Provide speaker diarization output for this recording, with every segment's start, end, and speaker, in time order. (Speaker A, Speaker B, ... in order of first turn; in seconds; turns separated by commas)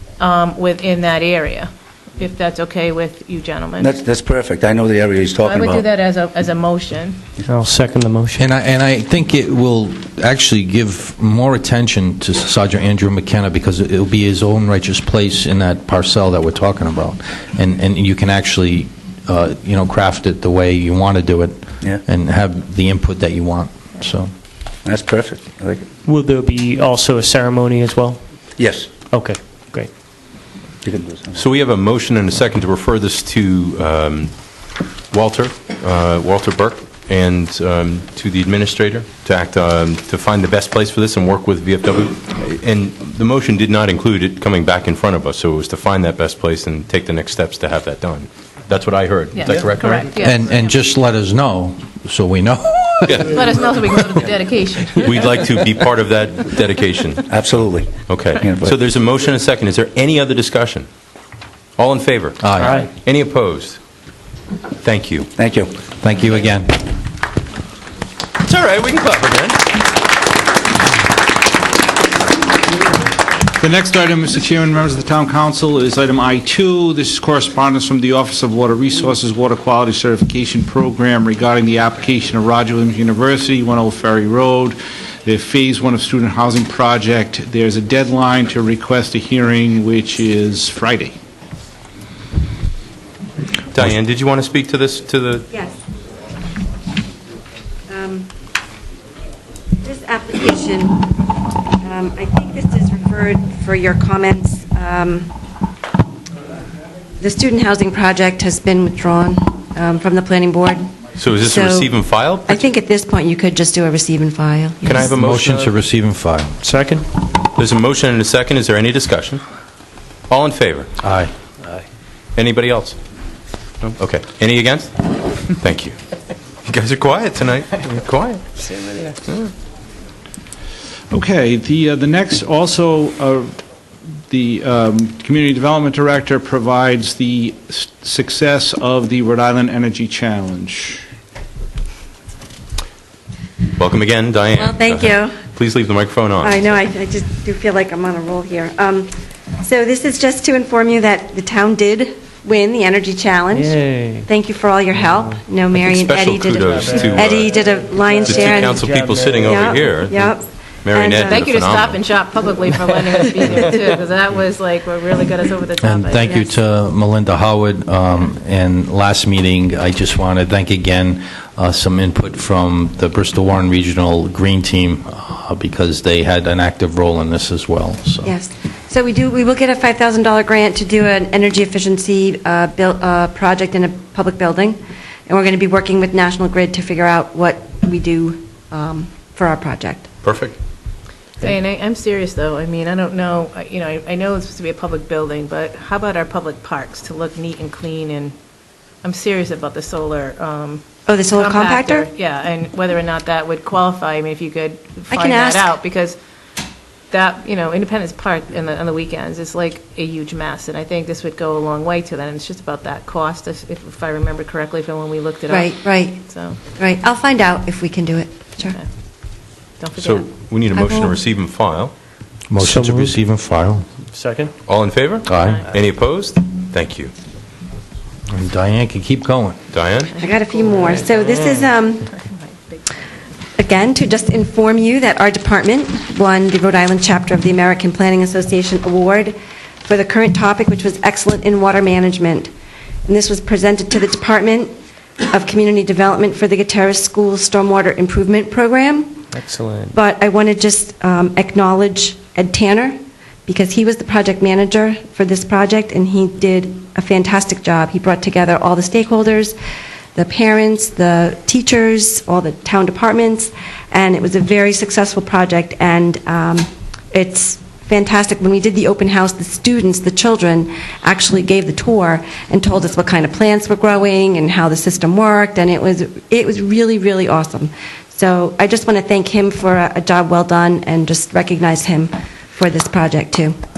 Speaker A: 0.2-4.0, Speaker B: 3.8-5.9, Speaker A: 5.4-7.2, Speaker C: 7.5-8.5, Speaker D: 8.4-24.3, Speaker B: 24.8-25.9, Speaker C: 26.0-28.2, Speaker B: 28.6-28.9, Speaker C: 29.1-29.9, Speaker B: 30.8-31.4, Speaker E: 31.4-34.3, Speaker E: 35.1-50.0, Speaker A: 49.4-50.5, Speaker D: 50.0-53.9, Speaker A: 53.2-55.2, Speaker E: 55.0-57.2, Speaker B: 57.3-58.8, Speaker E: 58.1-60.9, Speaker E: 61.8-63.8, Speaker D: 62.4-62.8, Speaker C: 62.6-62.9, Speaker E: 64.8-65.3, Speaker B: 65.4-65.8, Speaker D: 66.0-66.8, Speaker E: 68.4-69.8, Speaker F: 73.5-91.2, Speaker E: 93.7-95.5, Speaker G: 95.5-95.7, Speaker G: 97.9-98.3, Speaker G: 99.8-101.1, Speaker G: 101.8-105.3, Speaker G: 107.2-111.9, Speaker E: 111.2-112.7, Speaker G: 112.5-115.1, Speaker E: 114.8-115.7, Speaker D: 115.0-116.5, Speaker C: 116.6-117.0, Speaker E: 117.5-119.4, Speaker E: 120.3-120.9, Speaker D: 121.0-121.3, Speaker E: 122.3-123.0, Speaker E: 123.8-125.9, Speaker E: 126.7-128.4, Speaker F: 131.1-133.5, Speaker F: 134.3-141.0, Speaker E: 143.7-146.6, Speaker G: 144.5-145.3, Speaker G: 146.4-158.8, Speaker C: 153.5-154.3, Speaker E: 155.7-157.5, Speaker E: 158.2-162.0, Speaker C: 158.4-159.3, Speaker G: 159.4-161.4, Speaker A: 161.2-166.6, Speaker D: 165.8-178.3, Speaker G: 178.2-190.1, Speaker E: 190.2-190.6, Speaker A: 191.4-198.3, Speaker A: 199.0-200.8, Speaker G: 201.1-202.1, Speaker A: 201.3-206.2, Speaker G: 205.1-205.7, Speaker A: 207.1-216.6, Speaker G: 215.5-216.2, Speaker G: 216.8-218.8, Speaker A: 218.6-218.9, Speaker A: 219.8-220.3, Speaker E: 220.0-221.9, Speaker G: 220.7-221.2, Speaker D: 222.5-223.8, Speaker C: 222.6-223.2, Speaker C: 224.1-224.5, Speaker E: 224.7-227.1, Speaker D: 225.2-225.7, Speaker D: 228.3-229.6, Speaker E: 229.7-230.1, Speaker A: 230.2-231.3, Speaker G: 230.2-232.1, Speaker C: 231.2-231.6, Speaker A: 232.0-232.9, Speaker G: 233.6-242.5, Speaker G: 243.1-249.3, Speaker C: 249.3-249.9, Speaker G: 249.9-259.6, Speaker G: 260.1-283.5